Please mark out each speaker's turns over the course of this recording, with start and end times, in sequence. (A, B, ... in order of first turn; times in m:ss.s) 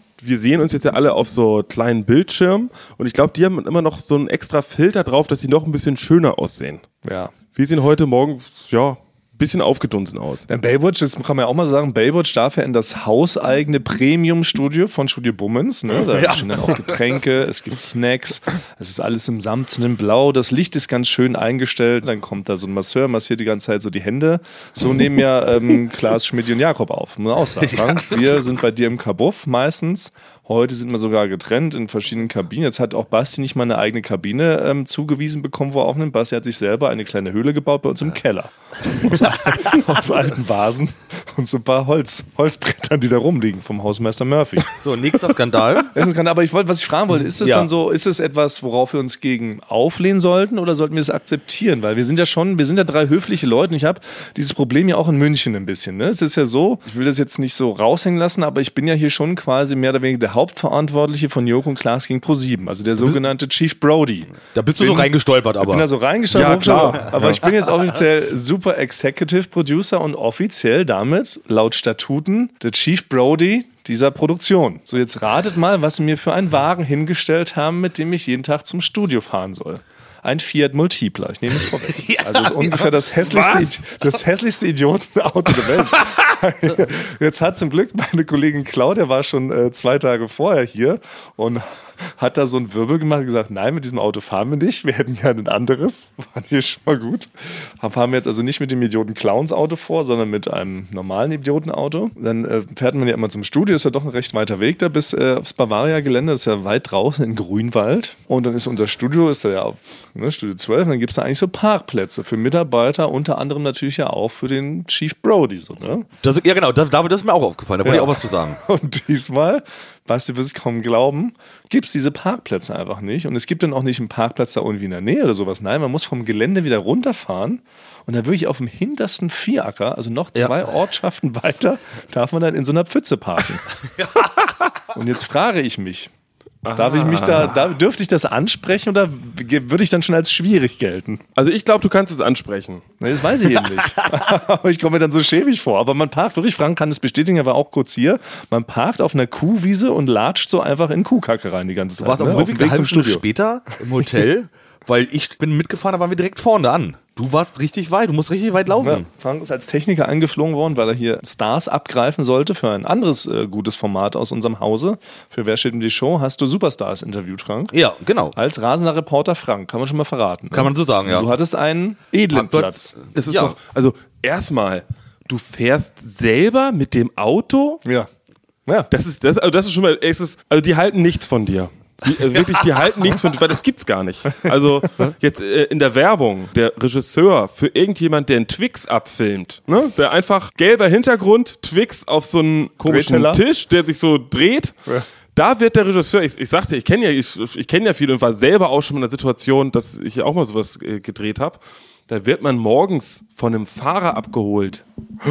0:00.2-0:06.9 A
0:07.0-0:07.3 B
0:07.5-0:10.4 A
0:10.5-0:44.7 B
0:16.1-0:16.9 C
0:27.6-0:28.4 C
0:39.1-0:39.4 C
0:44.8-0:46.0 C
0:45.8-1:05.1 B
0:47.4-0:47.7 C
1:04.5-1:05.9 C
1:05.6-1:56.1 B
1:06.3-1:07.4 A
1:21.9-1:22.9 C
1:56.2-1:58.6 C
1:57.8-2:13.7 B
2:14.0-2:14.4 C
2:14.9-2:16.1 B
2:16.6-2:17.5 A
2:16.8-2:21.2 B
2:21.4-2:22.8 A
2:23.0-2:33.2 B
2:23.8-2:24.1 C
2:32.0-2:39.1 C
2:38.8-2:47.7 B
2:47.7-2:48.4 C
2:48.3-2:53.0 B
2:50.5-2:51.3 C
2:52.3-2:53.6 C
2:53.2-2:57.8 A
2:58.9-3:14.8 A
3:12.8-3:13.4 B
3:15.4-3:24.8 A